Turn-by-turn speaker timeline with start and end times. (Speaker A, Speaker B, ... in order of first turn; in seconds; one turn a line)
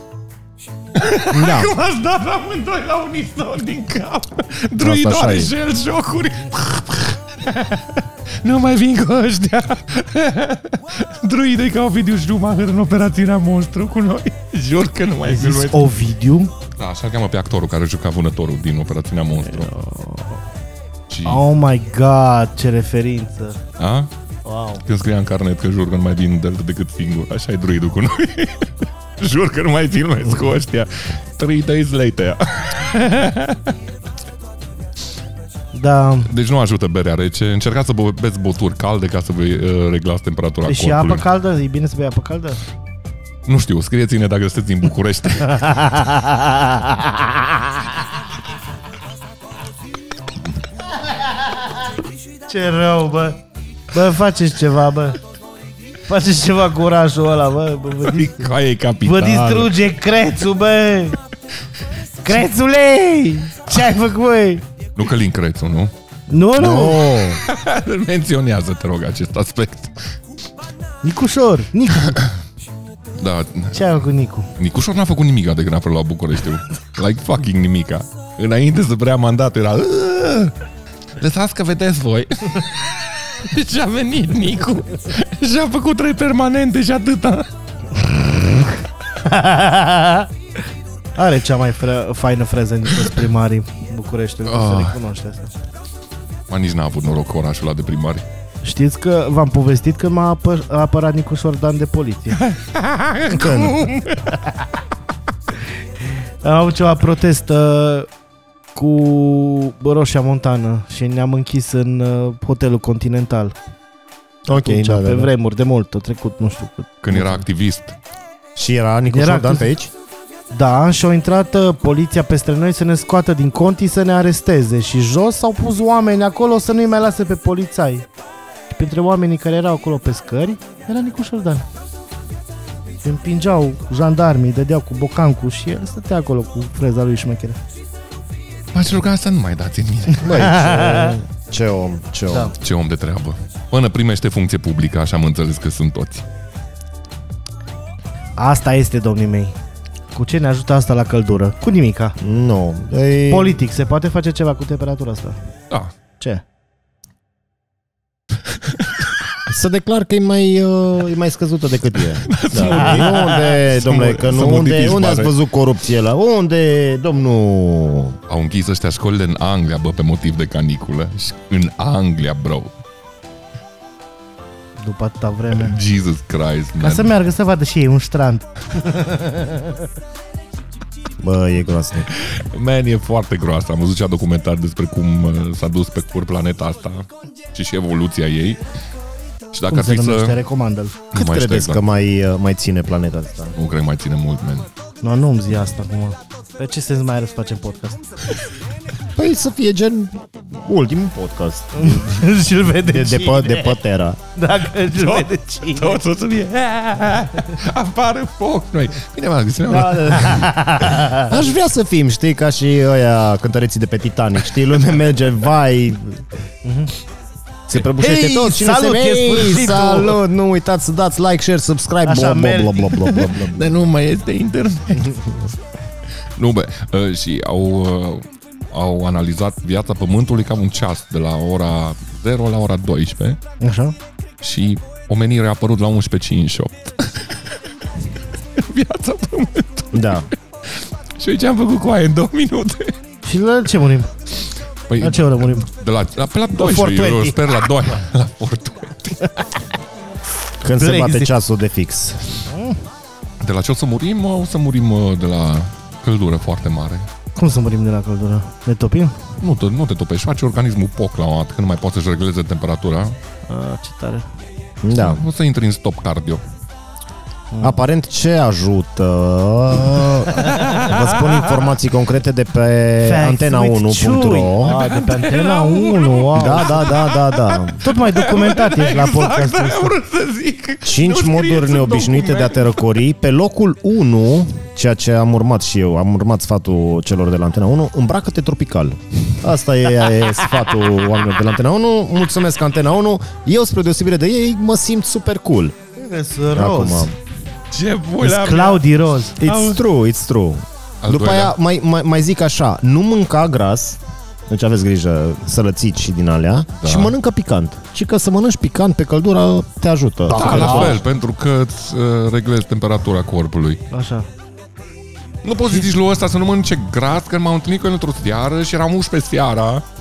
Speaker A: 0.9-15.9
Speaker B: 1.3-1.7
Speaker B: 4.8-5.5
Speaker C: 15.2-16.5
Speaker A: 16.8-19.7
Speaker C: 19.5-20.4
Speaker A: 21.1-21.4
Speaker C: 21.2-23.6
Speaker A: 23.8-24.1
Speaker C: 24.4-24.8
Speaker A: 24.8-33.7
Speaker C: 35.7-36.3
Speaker A: 36.2-41.2
Speaker C: 40.6-42.6
Speaker A: 43.5-45.9
Speaker C: 45.6-47.2
Speaker C: 52.5-53.4
Speaker C: 53.9-55.2
Speaker C: 56.1-58.5
Speaker A: 58.0-59.7
Speaker C: 59.0-61.2
Speaker C: 62.2-64.6
Speaker A: 65.0-65.9
Speaker C: 66.3-67.2
Speaker B: 66.6-67.4
Speaker A: 67.3-70.1
Speaker C: 71.0-72.2
Speaker A: 73.2-73.9
Speaker C: 73.7-74.5
Speaker A: 74.6-80.5
Speaker A: 81.2-87.5
Speaker C: 89.1-90.3
Speaker C: 91.2-95.5
Speaker A: 94.5-95.0
Speaker A: 96.5-98.2
Speaker C: 98.6-102.4
Speaker A: 102.4-104.4
Speaker B: 103.3-103.9
Speaker C: 106.4-108.1
Speaker C: 108.7-113.5
Speaker B: 114.5-115.3
Speaker C: 114.5-117.4
Speaker A: 117.0-118.0
Speaker B: 118.5-119.9
Speaker C: 119.1-119.7
Speaker C: 120.5-128.1
Speaker C: 128.7-131.7
Speaker C: 133.0-137.6
Speaker A: 138.7-140.6
Speaker C: 140.2-141.2
Speaker B: 140.2-142.5
Speaker A: 142.5-146.2
Speaker C: 148.4-149.5
Speaker C: 150.1-152.2
Speaker B: 152.2-153.6
Speaker C: 153.3-155.4
Speaker B: 159.5-168.2
Speaker A: 162.1-165.3
Speaker A: 168.3-172.7
Speaker C: 174.8-175.8
Speaker A: 175.5-177.1
Speaker C: 176.8-179.7
Speaker B: 181.2-182.1
Speaker A: 182.1-188.6
Speaker A: 189.5-190.4
Speaker C: 189.7-191.0
Speaker A: 191.1-191.8
Speaker B: 191.1-193.5
Speaker A: 193.6-194.7
Speaker C: 195.0-198.0
Speaker B: 199.2-202.2
Speaker C: 201.7-203.8
Speaker B: 202.8-204.2
Speaker C: 204.3-206.0
Speaker A: 204.9-210.5
Speaker B: 209.7-216.2
Speaker C: 210.2-211.3
Speaker C: 216.6-216.9
Speaker B: 217.7-223.7
Speaker C: 218.0-220.2
Speaker C: 222.0-223.2
Speaker A: 223.1-225.4
Speaker A: 226.3-233.4
Speaker C: 233.6-233.9
Speaker A: 234.4-237.6
Speaker A: 238.6-243.0
Speaker B: 239.9-240.3
Speaker C: 243.2-244.1
Speaker A: 244.9-249.5
Speaker C: 245.0-245.7
Speaker C: 246.6-247.5
Speaker B: 250.6-252.4
Speaker C: 250.7-251.3
Speaker C: 252.5-252.8
Speaker A: 253.4-257.1
Speaker C: 257.3-259.1
Speaker A: 259.4-263.2
Speaker C: 263.5-264.3
Speaker B: 264.8-265.2
Speaker A: 264.9-266.4
Speaker C: 267.5-267.8
Speaker B: 267.6-274.8
Speaker A: 270.4-271.6
Speaker C: 273.0-277.0
Speaker A: 274.6-282.8
Speaker B: 276.3-277.8
Speaker C: 277.8-279.9
Speaker B: 280.8-295.8
Speaker C: 295.9-297.1
Speaker B: 296.5-297.1
Speaker A: 297.7-298.8
Speaker C: 298.2-299.4
Speaker A: 299.4-299.8
Speaker B: 299.4-311.0
Speaker A: 301.0-301.5
Speaker A: 306.8-307.1
Speaker C: 310.3-310.9
Speaker A: 310.3-313.8
Speaker C: 313.9-314.3
Speaker A: 315.4-319.8